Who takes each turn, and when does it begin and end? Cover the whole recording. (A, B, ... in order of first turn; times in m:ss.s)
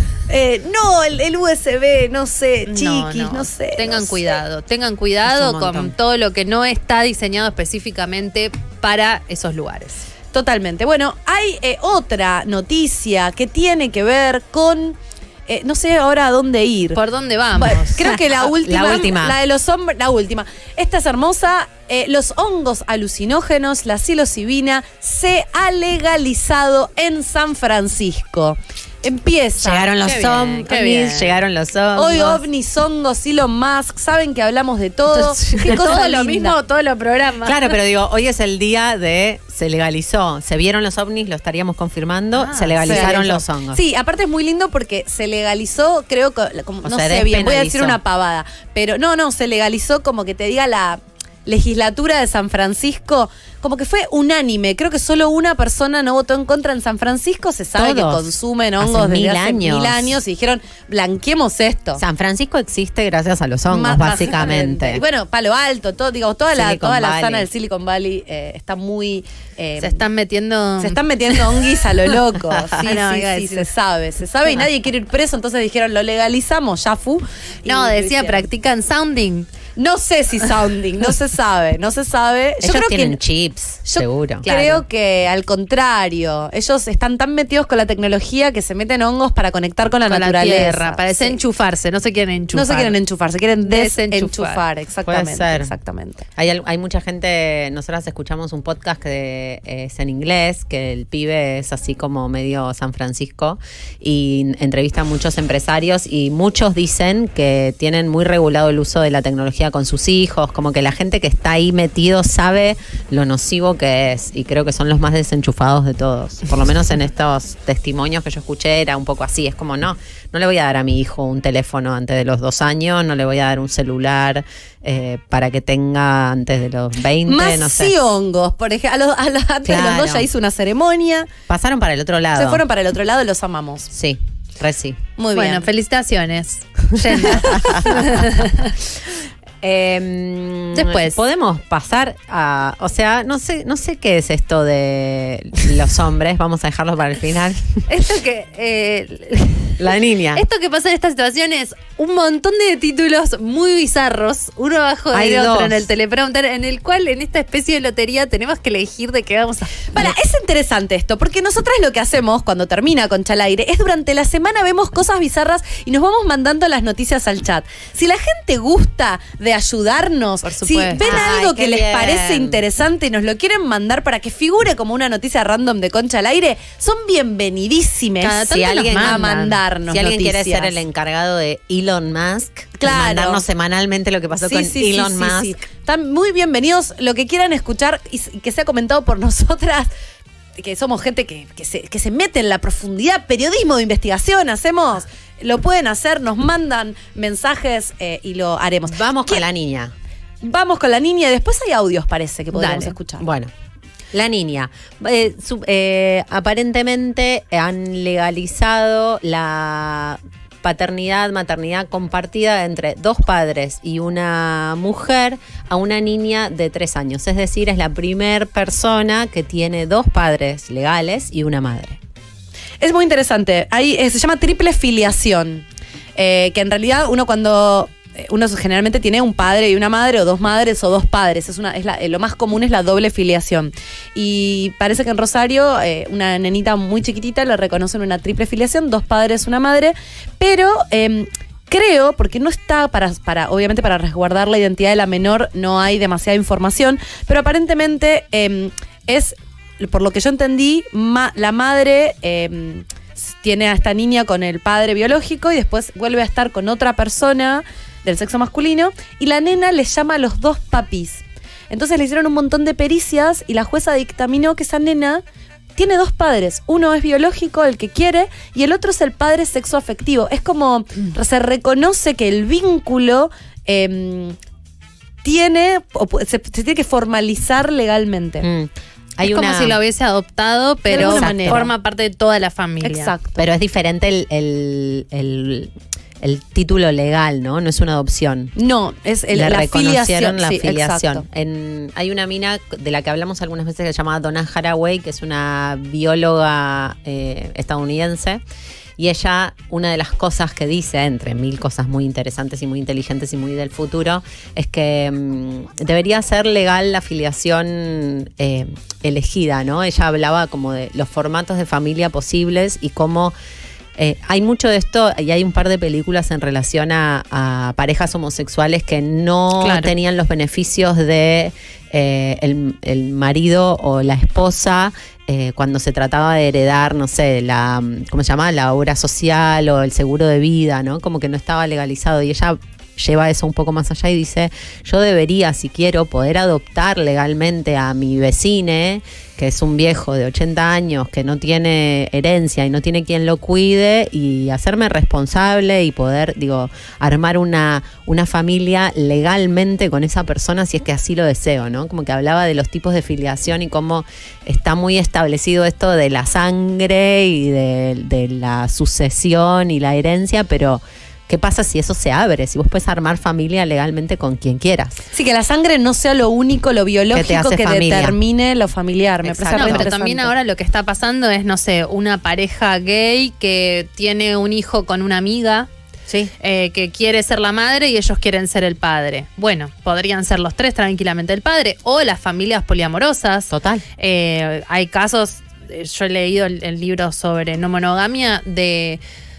0:00.3-0:04.4 A
0:02.7-0:10.1 B
0:05.2-0:05.9 C
0:10.3-0:17.0 A
0:16.9-0:18.1 B
0:17.6-0:29.9 A
0:18.4-0:19.4 C
0:29.6-0:32.4 C
0:30.0-0:31.4 B
0:32.0-0:36.6 A
0:35.5-0:35.8 C
0:35.5-0:37.8 B
0:37.4-0:43.8 C
0:42.4-0:43.2 B
0:42.8-1:02.0 A
0:46.8-0:48.0 C
0:57.7-1:00.2 C
1:02.0-1:05.0 C
1:03.7-1:10.0 A
1:06.5-1:07.5 C
1:09.8-1:11.0 B
1:10.8-1:18.5 A
1:12.8-1:13.7 B
1:17.6-1:19.5 B
1:19.8-1:23.2 A
1:22.6-1:24.4 C
1:23.8-1:31.4 A
1:24.4-1:24.8 B
1:30.0-1:33.0 B
1:32.5-1:36.2 A
1:33.6-1:34.6 B
1:35.0-1:35.7 C
1:36.4-2:07.9 C
2:07.2-2:11.3 A
2:09.6-2:10.3 C
2:11.5-2:12.6 C
2:12.3-2:13.9 A
2:13.9-2:15.0 C
2:15.2-2:15.7 A
2:15.3-2:18.7 B
2:17.4-2:17.8 C
2:19.6-2:27.7 C
2:20.7-2:21.2 B
2:27.9-2:39.9 B
2:29.8-2:30.4 C
2:35.1-2:35.9 C
2:39.9-2:58.4 A
2:50.4-2:51.3 B
2:51.0-2:52.6 C
2:58.2-2:59.3 B
2:58.3-3:05.6 C
2:59.0-3:00.8 A
3:02.8-3:03.4 A
3:04.4-3:09.9 A
3:10.6-3:19.4 A
3:18.9-3:19.9 C
3:20.4-3:23.2 A
3:22.6-3:23.5 C
3:24.1-3:42.0 C
3:42.8-4:25.2 A
4:25.8-4:34.4 A
4:35.2-4:38.4 A
4:38.4-4:39.8 C
4:39.2-4:43.1 B
4:40.9-4:41.7 A
4:40.9-4:41.7 C
4:42.8-4:43.4 A
4:43.4-4:48.5 C
4:48.6-4:51.2 A
4:49.3-4:58.4 C
4:59.0-5:13.3 C
5:14.0-6:04.9 C
5:19.6-5:19.9 B
6:05.1-6:10.3 A
6:07.1-6:08.2 C
6:09.2-6:09.9 C
6:09.5-6:15.7 B
6:16.4-6:29.0 B
6:23.5-6:23.8 C